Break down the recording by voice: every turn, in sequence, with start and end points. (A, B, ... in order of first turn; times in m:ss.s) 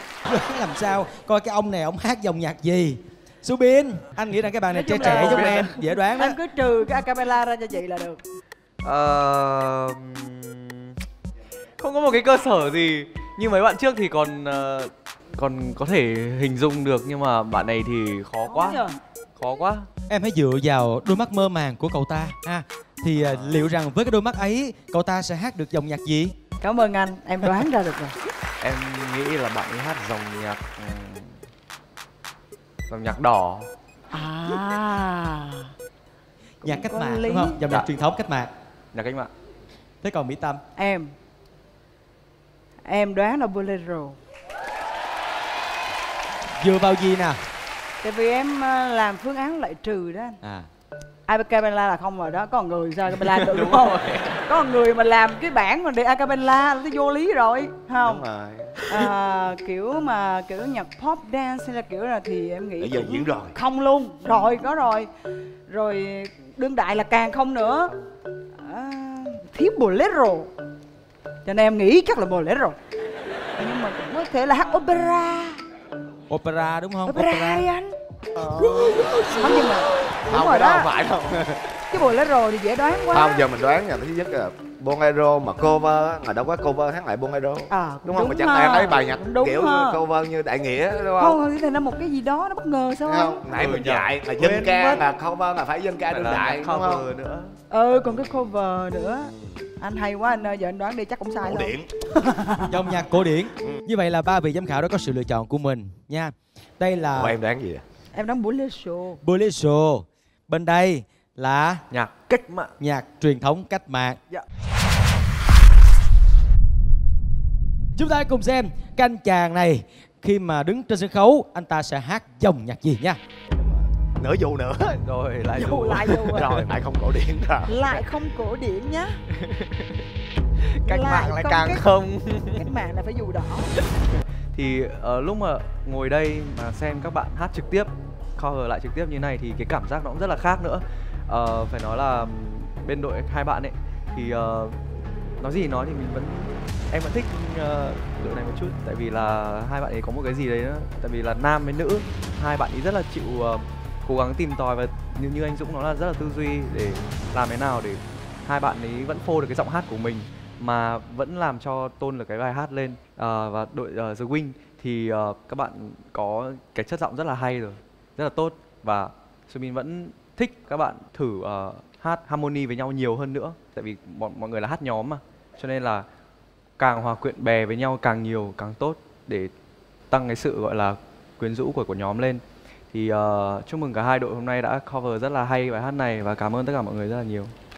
0:00.2-0:06.4 A
0:04.7-0:08.2 B
0:05.0-0:05.8 C
0:08.8-0:10.8 C
0:11.8-0:18.8 C
0:18.4-0:18.9 B
0:19.4-0:19.9 C
0:20.1-0:26.3 A
0:23.1-0:23.7 C
0:26.6-0:28.1 B
0:28.6-0:31.4 C
0:32.9-0:33.7 C
0:34.1-0:35.7 B
0:36.6-0:37.6 B
0:36.6-0:38.5 A
0:38.9-0:39.3 C
0:40.0-0:40.6 A
0:40.8-0:41.1 B
0:42.9-0:44.2 B
0:46.6-0:47.4 A
0:48.0-0:50.4 B
0:51.3-0:58.2 B
0:53.2-0:54.4 C
0:58.0-0:58.8 D
0:58.9-1:05.1 B
1:02.8-1:03.5 D
1:05.7-1:07.9 B
1:08.6-1:10.5 B
1:11.4-1:12.8 B
1:13.6-1:15.6 B
1:16.3-1:17.6 A
1:17.1-1:17.9 B
1:18.4-1:21.7 D
1:18.9-1:20.9 B
1:21.9-1:23.4 B
1:23.1-1:31.4 D
1:27.7-1:30.0 B
1:31.2-1:33.4 B
1:33.0-1:37.0 D
1:33.5-1:35.0 C
1:36.1-1:37.5 C
1:37.7-1:42.9 B
1:41.4-1:41.9 D
1:42.7-1:47.3 A
1:47.1-1:47.8 D
1:48.1-1:49.2 B
1:49.2-1:51.8 A
1:51.9-1:52.7 C
1:52.8-1:54.2 A
1:58.0-2:03.2 A
2:04.2-2:05.0 D
2:05.0-2:06.7 C
2:05.6-2:06.6 B
2:06.3-2:07.8 D
2:07.6-2:09.2 B
2:09.4-2:10.0 C
2:10.6-2:12.6 C
2:10.8-2:11.8 B
2:12.5-2:13.7 B
2:14.0-2:24.8 C
2:25.4-2:56.0 C
2:56.8-2:59.5 C
3:00.1-3:07.5 C